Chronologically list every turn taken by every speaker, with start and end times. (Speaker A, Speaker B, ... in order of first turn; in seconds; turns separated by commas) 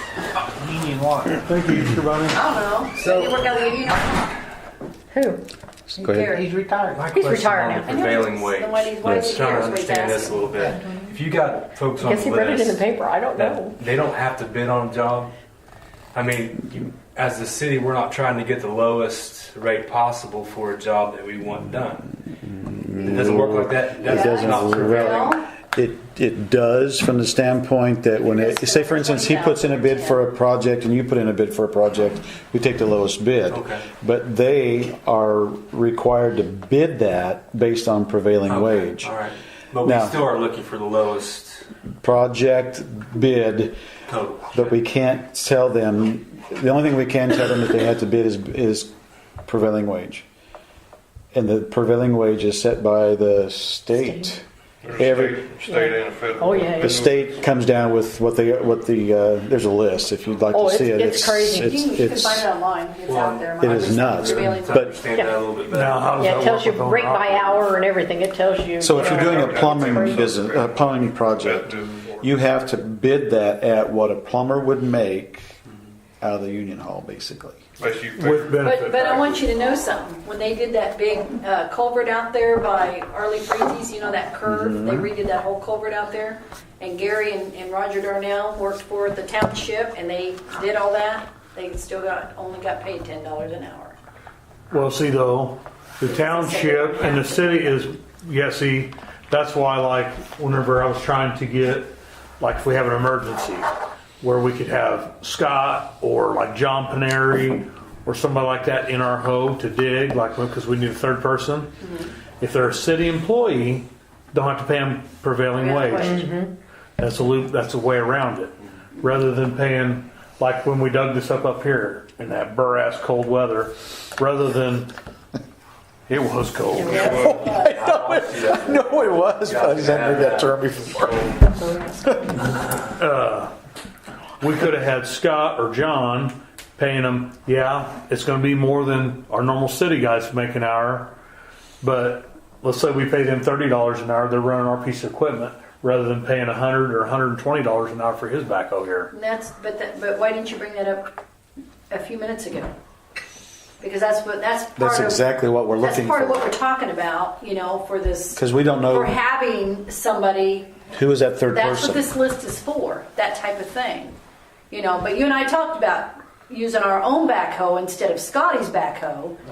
Speaker A: 1.4-2.4, Speaker B: 2.3-4.3, Speaker C: 5.1-5.4, Speaker D: 5.9-6.3, Speaker B: 6.0-6.6, Speaker E: 6.8-12.8, Speaker C: 7.1-7.9, Speaker B: 7.7-10.6, Speaker C: 12.0-13.8, Speaker E: 13.3-15.3, Speaker E: 16.1-22.1, Speaker D: 22.4-39.1, Speaker E: 23.0-25.3, Speaker B: 24.1-25.4, Speaker B: 28.2-30.2, Speaker E: 33.5-33.8, Speaker E: 38.5-41.7, Speaker D: 39.8-40.2, Speaker D: 42.0-43.8, Speaker E: 44.1-44.8, Speaker D: 44.5-48.9, Speaker D: 49.5-50.3, Speaker D: 51.3-54.4, Speaker F: 54.8-57.3, Speaker D: 54.9-55.6, Speaker C: 55.7-57.0, Speaker D: 56.8-62.5, Speaker C: 60.5-61.7, Speaker B: 61.5-65.2, Speaker E: 63.0-66.4, Speaker D: 63.6-64.9, Speaker A: 65.7-67.8, Speaker C: 66.2-70.2, Speaker D: 68.8-75.5, Speaker F: 68.9-72.3, Speaker D: 76.2-77.6, Speaker F: 77.8-79.3, Speaker A: 78.2-79.0, Speaker B: 78.6-94.0, Speaker D: 84.5-85.1, Speaker A: 94.7-103.7, Speaker B: 96.0-97.8, Speaker A: 104.2-111.7, Speaker A: 112.4-116.3, Speaker B: 115.5-116.2, Speaker C: 116.1-116.5, Speaker A: 117.0-124.9, Speaker A: 126.1-127.2, Speaker D: 126.8-131.4, Speaker B: 126.9-127.7, Speaker F: 126.9-127.5, Speaker E: 128.0-128.2, Speaker E: 129.5-130.5, Speaker D: 132.1-132.4, Speaker A: 132.9-133.5, Speaker A: 134.4-141.1, Speaker A: 141.8-149.1, Speaker B: 149.1-151.1, Speaker B: 151.9-152.7, Speaker B: 153.8-155.2, Speaker D: 154.8-156.5, Speaker B: 155.8-160.7, Speaker D: 158.3-159.1, Speaker D: 160.9-162.1, Speaker B: 161.5-164.2, Speaker B: 164.7-169.4